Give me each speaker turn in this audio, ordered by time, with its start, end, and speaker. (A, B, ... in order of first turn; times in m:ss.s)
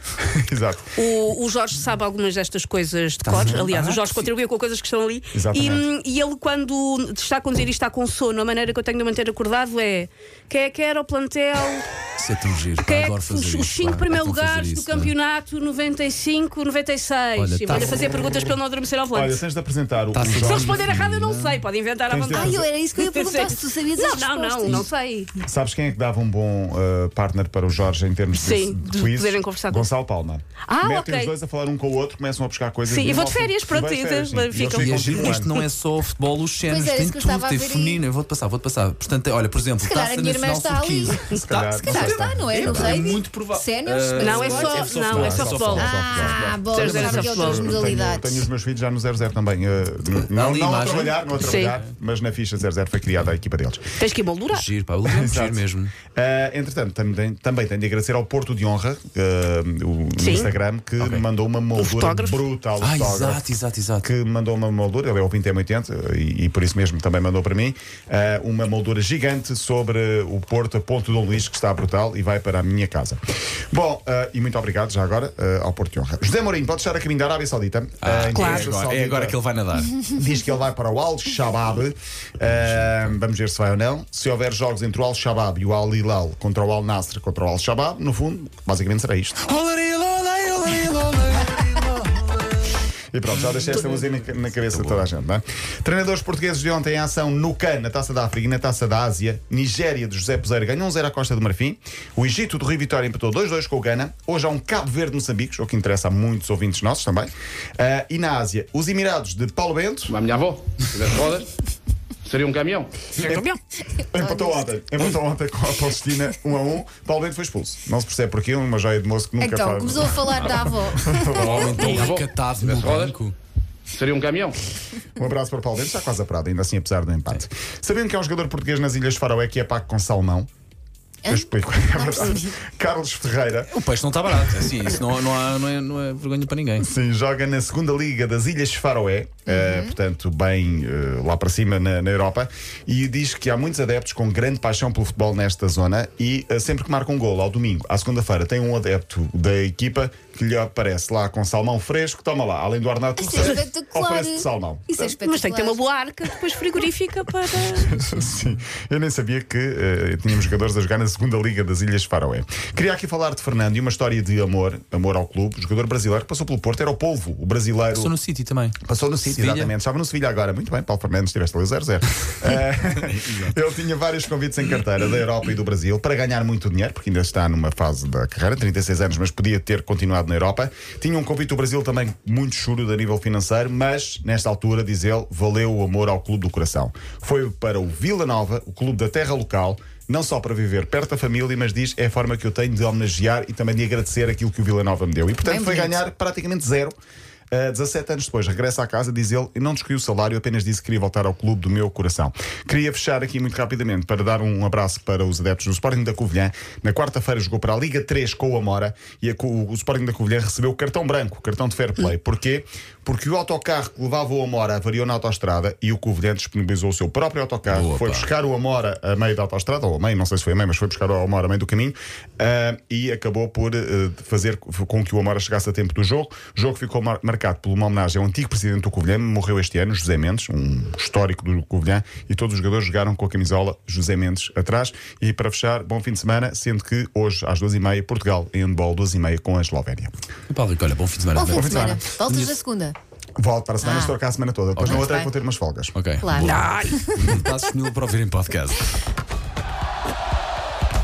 0:00.2-0:01.0 A
0:01.0-0:12.0 B
0:03.2-0:04.3 C
0:03.3-0:03.7 A
0:05.3-0:05.9 A
0:12.2-0:15.1 C
0:12.8-0:19.4 B
0:17.4-0:18.2 C
0:17.7-0:18.5 A
0:19.1-0:20.9 A
0:20.1-0:21.6 C
0:20.3-0:25.4 B
0:22.1-0:22.7 A
0:22.3-0:24.9 D
0:25.4-0:35.5 A
0:28.3-0:29.9 B
0:30.7-0:31.3 B
0:32.9-0:35.6 B
0:34.6-0:46.5 C
0:36.6-0:38.0 D
0:39.8-0:41.3 D
0:41.3-0:43.0 A
0:41.8-0:44.9 D
0:44.1-0:47.8 B
0:44.9-0:54.0 A
0:45.8-0:48.5 D
0:50.0-0:51.9 C
0:51.4-0:51.8 B
0:54.0-0:54.7 B
0:54.5-0:55.9 C
0:55.0-1:03.4 A
1:00.2-1:00.5 B
1:01.8-1:02.5 B
1:02.8-1:04.1 C
1:04.0-1:13.2 A
1:13.7-1:19.4 A
1:18.0-1:20.0 C
1:18.3-1:18.7 B
1:20.0-1:29.4 A
1:22.5-1:23.2 C
1:29.5-1:32.4 C
1:33.1-1:50.2 A
1:33.3-1:35.1 C
1:50.1-1:51.5 E
1:52.3-1:53.4 E
1:53.2-1:53.5 A
1:53.2-1:53.6 B
1:54.1-2:01.9 A
1:54.2-1:54.5 D
1:59.4-2:02.0 D
2:01.4-2:03.4 C
2:01.4-2:03.2 E
2:03.9-2:04.6 E
2:05.2-2:10.5 A
2:11.2-2:12.6 D
2:11.2-2:13.7 A
2:13.7-2:16.9 C
2:16.8-2:35.2 A
2:19.5-2:19.9 D
2:33.2-2:35.8 D
2:35.2-2:38.0 B
2:37.6-2:48.2 A
2:47.9-2:49.7 C
2:48.8-3:17.0 A
2:53.0-2:53.6 C
3:15.5-3:15.9 D
3:17.5-4:00.1 A
3:37.7-3:38.3 C
4:00.5-4:02.6 C
4:01.4-4:03.0 D
4:01.5-4:02.0 A
4:03.4-4:06.0 A
4:03.8-4:04.2 D
4:04.8-4:05.1 C
4:04.8-4:05.3 D
4:05.9-4:08.9 C
4:06.2-4:07.4 D
4:06.4-4:07.0 B